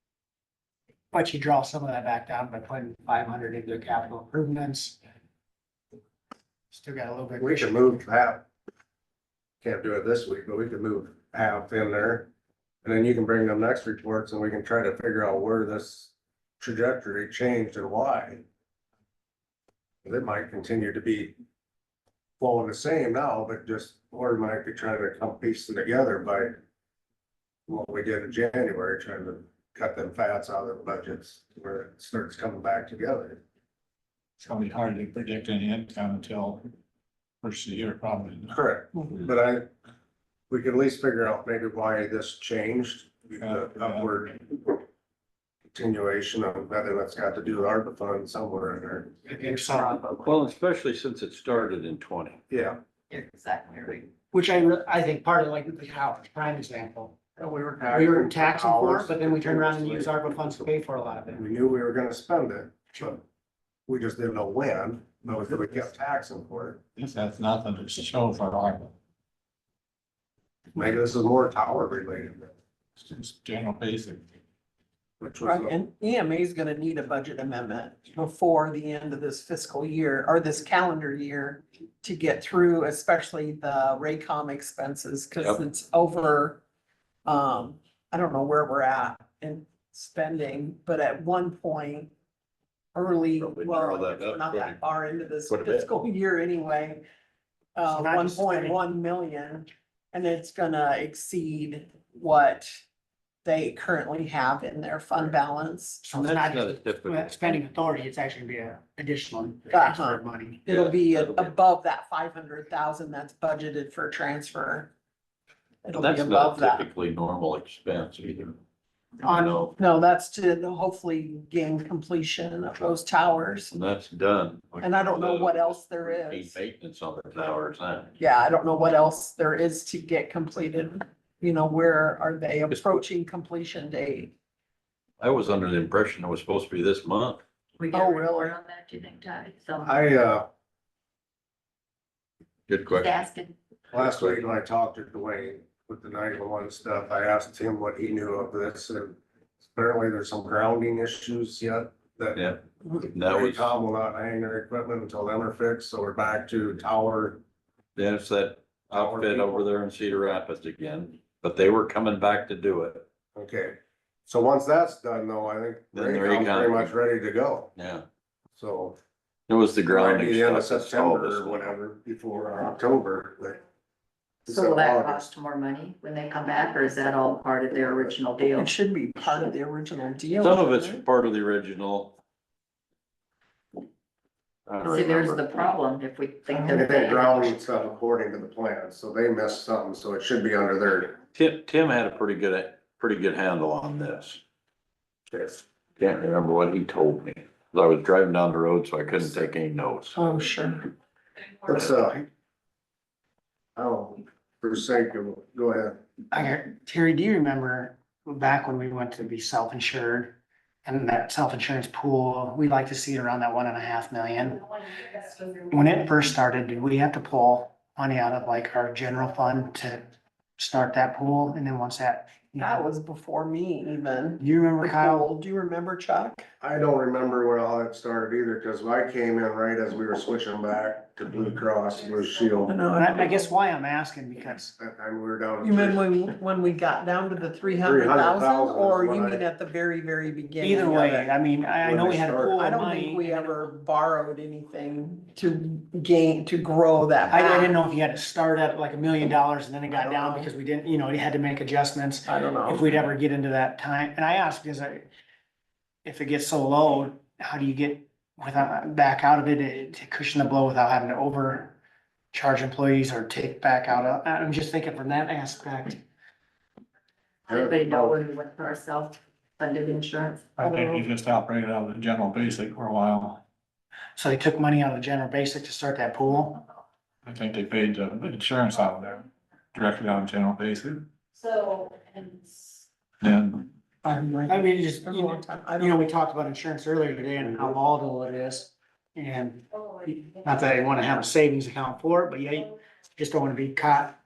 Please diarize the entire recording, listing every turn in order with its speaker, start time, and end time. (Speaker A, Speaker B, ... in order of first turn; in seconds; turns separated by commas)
Speaker A: 1.1-5.0, Speaker A: 6.7-7.8, Speaker B: 7.4-8.4, Speaker B: 9.6-12.3, Speaker B: 12.8-18.4, Speaker B: 20.0-21.4, Speaker B: 22.4-26.6, Speaker B: 27.7-33.4, Speaker C: 34.4-36.6, Speaker C: 37.4-38.5, Speaker B: 38.5-39.7, Speaker B: 40.5-44.8, Speaker C: 43.4-44.1, Speaker B: 45.7-49.2, Speaker A: 49.3-50.0, Speaker D: 50.1-52.4, Speaker B: 52.5-52.8, Speaker E: 53.1-54.1, Speaker A: 54.3-57.2, Speaker B: 57.4-60.1, Speaker A: 57.9-61.5, Speaker B: 61.4-63.2, Speaker B: 63.9-66.8, Speaker C: 67.0-68.9, Speaker B: 70.8-72.5, Speaker C: 73.0-74.2, Speaker B: 75.2-75.7, Speaker F: 75.4-86.6, Speaker F: 87.2-92.1, Speaker F: 92.9-97.0, Speaker D: 93.4-94.8, Speaker D: 95.5-95.9, Speaker F: 97.7-102.8, Speaker A: 97.9-98.8, Speaker F: 103.4-106.0, Speaker A: 106.0-110.7, Speaker D: 106.1-107.5, Speaker F: 109.7-114.9, Speaker D: 110.7-111.5, Speaker F: 115.8-116.9, Speaker D: 115.9-118.6, Speaker D: 119.2-119.8, Speaker F: 119.4-123.8, Speaker D: 123.7-128.1, Speaker F: 124.8-126.6, Speaker F: 128.2-134.3, Speaker D: 132.7-133.0, Speaker D: 135.2-137.4, Speaker E: 137.8-140.0, Speaker F: 137.9-138.5, Speaker B: 139.8-140.5, Speaker D: 142.7-143.2, Speaker E: 142.9-143.5, Speaker B: 143.9-157.4, Speaker D: 144.0-144.4, Speaker D: 153.1-153.8, Speaker D: 157.9-163.1, Speaker B: 158.9-159.7, Speaker B: 163.3-167.7, Speaker D: 165.9-167.0, Speaker D: 167.8-168.0, Speaker B: 168.6-169.0, Speaker D: 169.5-171.8, Speaker B: 169.9-173.6, Speaker B: 174.5-175.3, Speaker E: 174.5-178.8, Speaker F: 178.5-181.0, Speaker D: 180.4-182.2, Speaker D: 184.7-185.4, Speaker E: 184.9-187.6, Speaker B: 186.5-191.2, Speaker D: 191.3-194.4, Speaker D: 195.4-200.2, Speaker F: 200.1-200.9, Speaker B: 201.7-202.2, Speaker B: 203.8-206.0, Speaker A: 206.3-220.0, Speaker A: 220.6-222.8, Speaker F: 222.6-226.4, Speaker A: 224.4-225.3, Speaker B: 226.6-232.8, Speaker F: 232.7-233.5, Speaker A: 232.9-234.8, Speaker B: 234.8-236.1, Speaker F: 235.6-241.3, Speaker B: 237.8-239.4, Speaker A: 240.6-243.5, Speaker B: 241.8-242.6, Speaker F: 242.6-247.8, Speaker A: 247.3-255.1, Speaker F: 249.9-250.5, Speaker F: 252.2-252.9, Speaker A: 256.1-261.8, Speaker A: 262.3-266.0, Speaker E: 267.5-270.5, Speaker B: 267.5-268.1, Speaker C: 270.6-273.4, Speaker A: 274.1-276.6, Speaker C: 277.2-281.1, Speaker C: 283.2-283.7, Speaker A: 284.1-294.2, Speaker F: 284.1-286.0